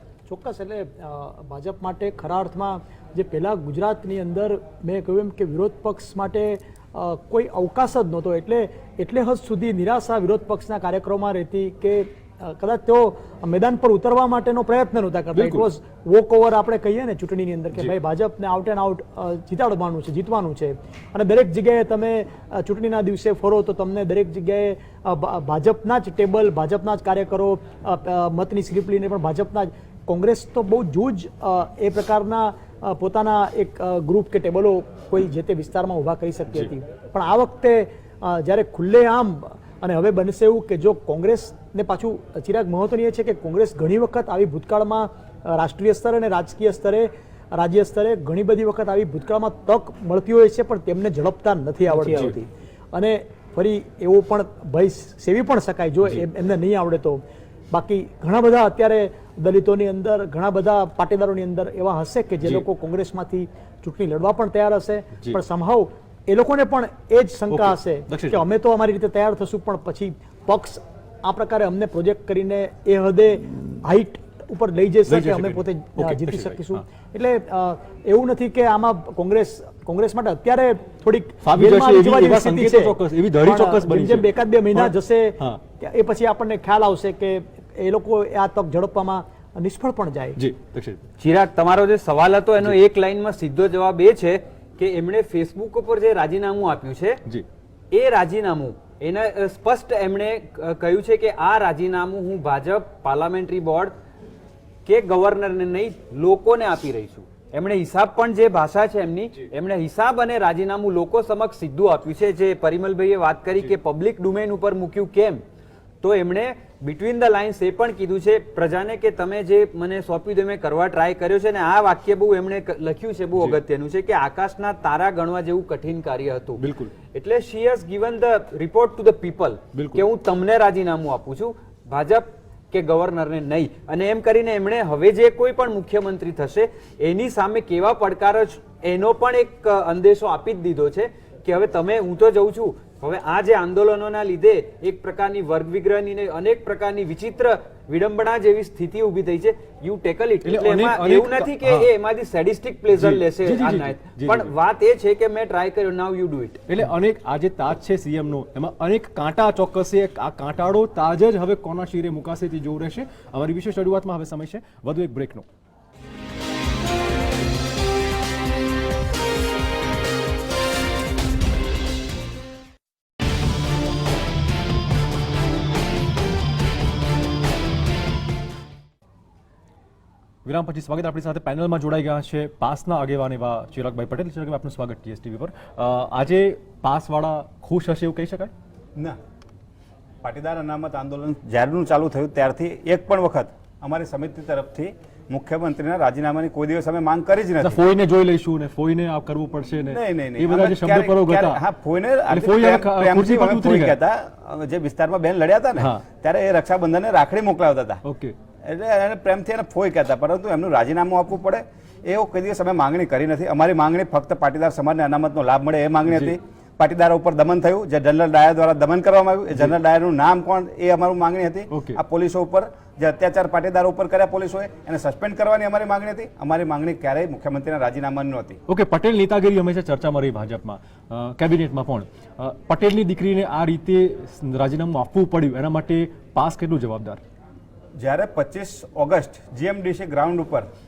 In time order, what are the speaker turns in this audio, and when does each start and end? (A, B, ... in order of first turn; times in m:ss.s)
0:00.3-1:30.4 A
0:15.3-0:15.6 B
0:51.9-0:52.3 B
1:07.5-1:08.4 B
1:15.1-1:16.8 B
1:21.4-1:25.6 B
1:30.4-1:31.0 B
1:31.2-1:37.2 C
1:37.9-1:43.9 C
1:44.8-1:55.4 C
1:56.0-2:36.6 C
2:06.6-2:06.9 B
2:09.7-2:10.0 B
2:30.4-2:31.9 B
2:32.9-2:34.5 B
2:36.7-2:45.4 B
3:00.4-3:08.5 B
3:10.2-3:17.8 D
3:17.6-3:21.6 B
3:19.9-3:28.0 D
3:22.3-3:23.9 B
3:28.0-3:28.3 B
3:28.6-3:48.6 D
3:41.7-3:42.0 B
3:48.7-3:57.2 B
3:58.0-4:00.7 D